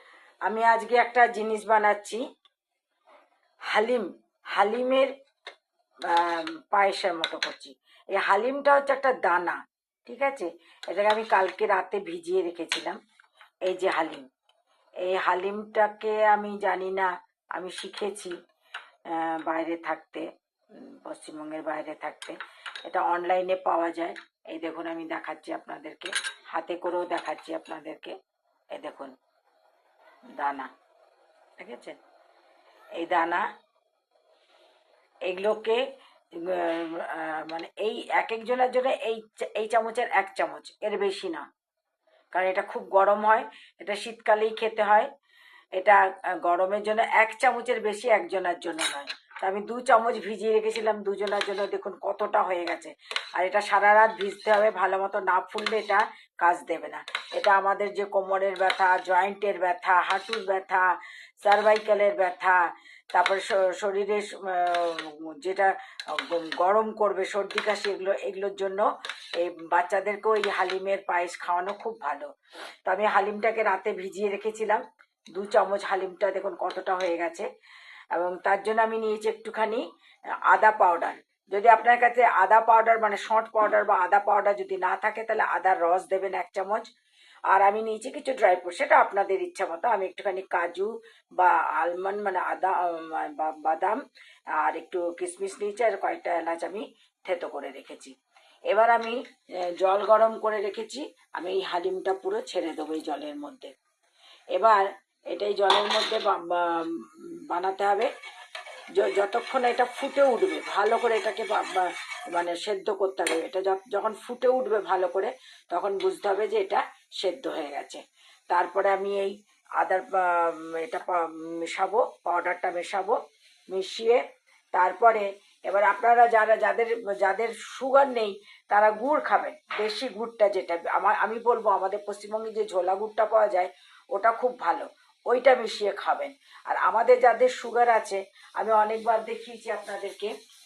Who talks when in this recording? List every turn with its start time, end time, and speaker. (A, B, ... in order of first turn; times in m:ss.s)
0:00.4-0:02.2 A
0:03.7-0:05.1 A
0:06.1-0:13.0 A
0:13.7-0:14.3 A
0:15.0-0:18.4 A
0:19.1-0:28.2 A
0:28.7-0:29.1 A
0:30.4-0:30.7 A
0:31.6-0:32.0 A
0:33.0-0:33.4 A
0:35.3-0:35.8 A
0:36.4-0:41.5 A
0:42.3-0:45.1 A
0:45.8-1:00.9 A
1:01.4-1:02.6 A
1:03.1-1:12.3 A
1:12.9-1:14.8 A
1:15.3-1:17.5 A
1:18.1-1:19.8 A
1:20.5-1:26.9 A
1:27.5-1:34.0 A
1:34.6-1:38.1 A
1:38.7-1:39.2 A
1:39.8-1:43.7 A
1:44.6-1:48.1 A
1:49.0-2:03.2 A
2:03.7-2:04.2 A
2:04.7-2:20.3 A